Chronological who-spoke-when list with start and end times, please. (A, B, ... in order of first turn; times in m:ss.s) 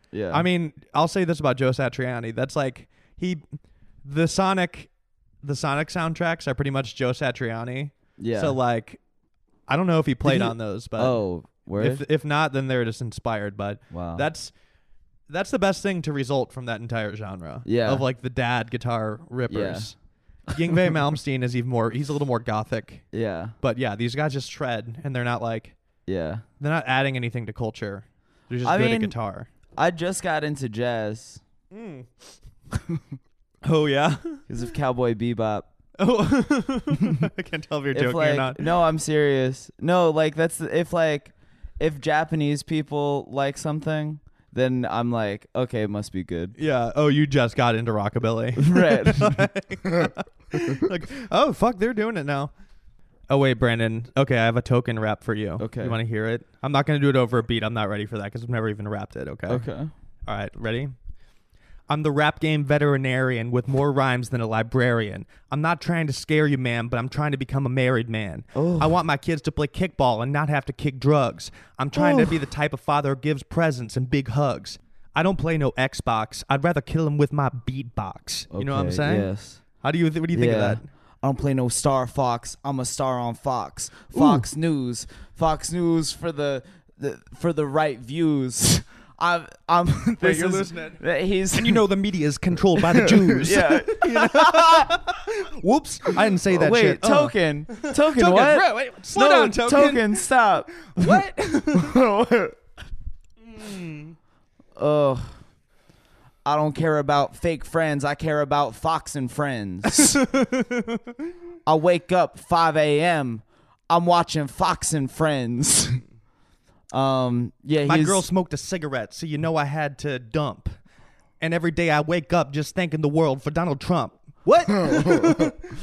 0:00.1-0:00.4 A
0:00.3-0:04.9 B
0:05.4-0:09.0 B
0:08.2-0:08.6 A
0:09.7-0:11.2 B
0:10.2-0:12.0 A
0:11.8-0:14.5 B
0:13.9-0:14.3 A
0:15.3-0:20.0 B
0:17.6-0:18.0 A
0:19.5-0:19.9 A
0:20.6-0:23.0 B
0:23.1-0:23.6 A
0:23.6-0:25.8 B
0:26.1-0:26.4 A
0:26.6-0:29.5 B
0:28.6-0:29.2 A
0:29.8-0:31.4 A
0:31.7-0:32.2 B
0:33.6-0:34.4 B
0:34.5-0:35.7 A
0:36.0-0:38.7 B
0:37.9-0:46.6 A
0:46.6-0:52.5 B
0:48.6-0:49.5 A
0:53.3-0:59.7 B
0:55.6-0:56.0 A
0:59.5-0:59.9 A
1:00.3-1:00.9 B
1:01.9-1:19.3 B
1:08.5-1:09.0 A
1:11.9-1:12.4 A
1:18.5-1:19.6 A
1:19.8-1:20.9 B
1:20.3-1:31.9 A
1:24.1-1:24.5 B
1:30.2-1:31.0 B
1:31.5-1:42.0 B
1:32.8-1:35.0 A
1:36.5-1:41.2 A
1:41.8-1:42.6 A
1:43.4-1:44.2 B
1:44.8-1:45.4 A
1:46.4-1:50.2 A
1:49.9-1:51.1 B
1:51.7-1:56.0 A
1:56.9-1:58.3 A
1:57.8-2:00.8 B
2:01.4-2:05.7 B